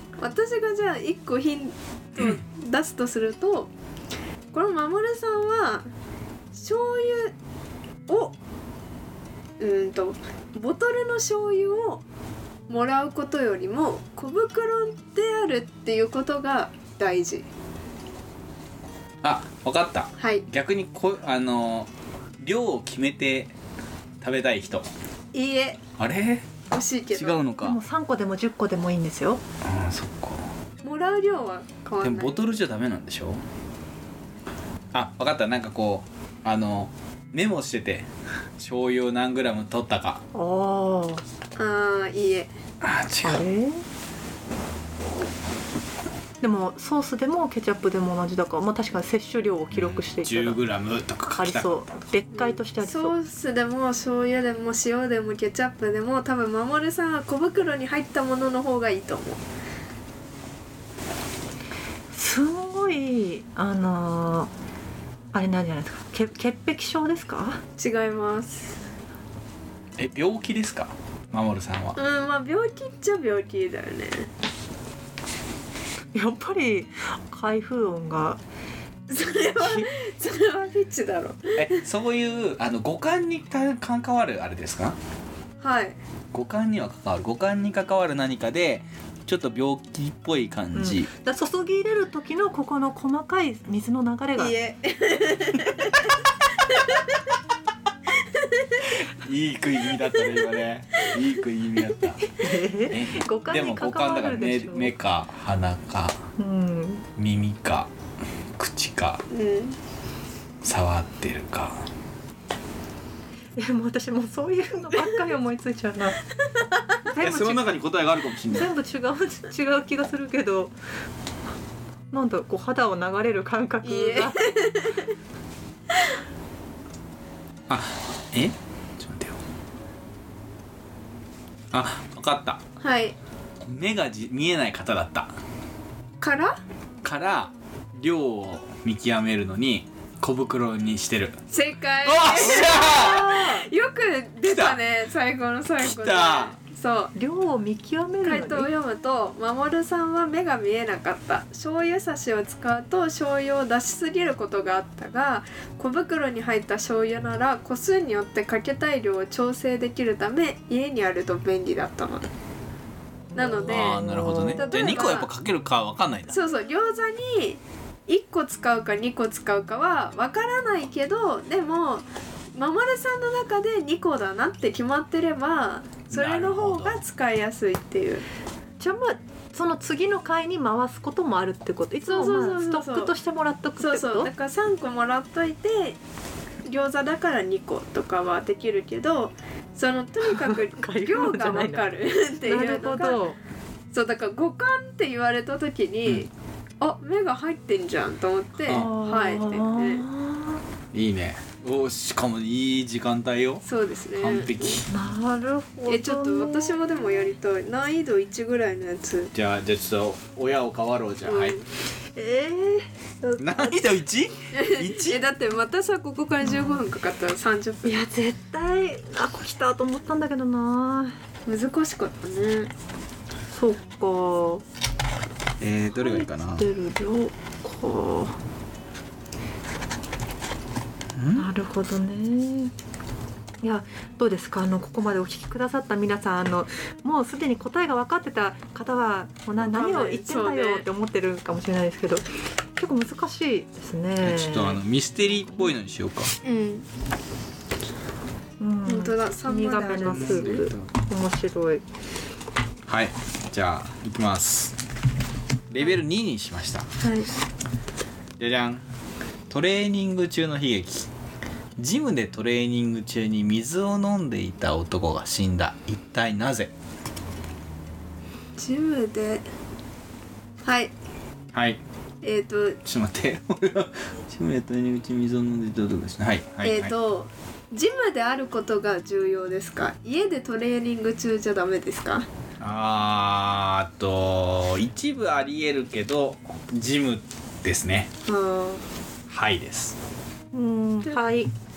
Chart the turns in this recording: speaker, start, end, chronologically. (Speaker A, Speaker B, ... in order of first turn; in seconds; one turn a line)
Speaker A: 0.2-3.7
Speaker A: 4.5-5.9
Speaker A: 6.5-7.3
Speaker A: 8.1-8.3
Speaker A: 9.6-12.0
Speaker A: 12.7-17.4
Speaker B: 19.2-21.9
Speaker A: 20.2-20.4
Speaker B: 22.4-23.5
Speaker B: 24.2-24.9
Speaker A: 25.3-25.8
Speaker B: 26.0-26.5
Speaker A: 26.7-27.4
Speaker B: 27.1-27.8
Speaker C: 27.6-29.4
Speaker B: 29.6-30.4
Speaker A: 30.8-32.4
Speaker B: 32.0-33.4
Speaker B: 34.9-38.1
Speaker B: 38.6-40.2
Speaker C: 40.3-41.2
Speaker A: 41.6-42.5
Speaker B: 42.8-43.4
Speaker C: 43.2-43.8
Speaker C: 46.4-50.6
Speaker B: 49.7-51.8
Speaker C: 51.4-53.1
Speaker A: 52.3-59.4
Speaker C: 62.1-64.5
Speaker C: 65.3-67.6
Speaker A: 67.8-68.7
Speaker B: 70.0-72.0
Speaker A: 72.0-74.3
Speaker C: 76.1-78.4
Speaker A: 79.1-81.7
Speaker B: 81.5-85.0
Speaker A: 85.6-86.0
Speaker B: 86.3-91.1
Speaker C: 90.7-94.5
Speaker A: 94.4-96.0
Speaker A: 98.4-98.7
Speaker B: 98.9-102.4
Speaker C: 102.4-104.9
Speaker B: 102.9-106.2
Speaker C: 106.4-107.0
Speaker B: 107.2-107.9
Speaker B: 108.6-109.2
Speaker A: 109.3-109.8
Speaker B: 110.6-111.8
Speaker C: 113.5-116.2
Speaker C: 117.1-117.7
Speaker B: 117.2-118.7
Speaker C: 118.5-120.8
Speaker C: 122.1-124.4
Speaker A: 123.8-125.1
Speaker B: 127.7-129.4
Speaker B: 131.7-132.6
Speaker A: 132.8-133.1
Speaker B: 133.6-135.3
Speaker A: 136.2-136.6
Speaker B: 137.0-141.4
Speaker A: 141.5-147.1
Speaker B: 142.0-143.3
Speaker C: 142.4-143.7
Speaker B: 144.4-144.8
Speaker B: 145.8-146.5
Speaker C: 147.1-148.7
Speaker A: 148.2-162.3
Speaker C: 163.3-165.0
Speaker A: 163.3-165.3
Speaker B: 163.6-166.4
Speaker A: 166.3-178.2
Speaker B: 176.1-177.0
Speaker C: 178.8-184.3
Speaker A: 182.0-183.1
Speaker A: 183.8-186.0
Speaker A: 186.6-193.2
Speaker C: 190.3-191.8
Speaker C: 192.4-193.4
Speaker A: 193.9-196.3
Speaker A: 196.8-200.0
Speaker C: 198.7-200.6
Speaker B: 200.9-203.6
Speaker A: 203.6-204.8
Speaker B: 204.2-204.9
Speaker C: 204.9-207.3
Speaker A: 205.9-209.3
Speaker B: 209.3-211.6
Speaker A: 211.2-211.6
Speaker C: 212.2-213.8
Speaker B: 213.4-215.2
Speaker A: 214.5-218.0
Speaker C: 216.4-216.8
Speaker C: 217.8-221.1
Speaker A: 221.5-222.7
Speaker C: 223.5-224.6
Speaker B: 225.6-226.7
Speaker C: 225.9-228.4
Speaker B: 231.2-231.5
Speaker C: 231.3-232.7
Speaker C: 233.6-244.8
Speaker A: 239.6-240.9
Speaker B: 244.2-246.3
Speaker C: 245.4-245.7
Speaker A: 246.4-246.9
Speaker C: 248.6-251.8
Speaker A: 248.9-250.7
Speaker B: 250.0-250.9
Speaker B: 252.9-254.8
Speaker B: 255.7-256.9
Speaker A: 257.0-257.3
Speaker B: 258.4-258.8
Speaker B: 259.5-261.1
Speaker B: 261.8-266.7
Speaker A: 268.6-269.4
Speaker A: 270.6-270.9
Speaker B: 271.5-271.8
Speaker A: 272.2-272.8
Speaker B: 272.8-276.9
Speaker A: 276.6-282.2
Speaker B: 282.6-288.1
Speaker A: 288.3-288.8
Speaker B: 289.3-289.9
Speaker C: 290.5-291.5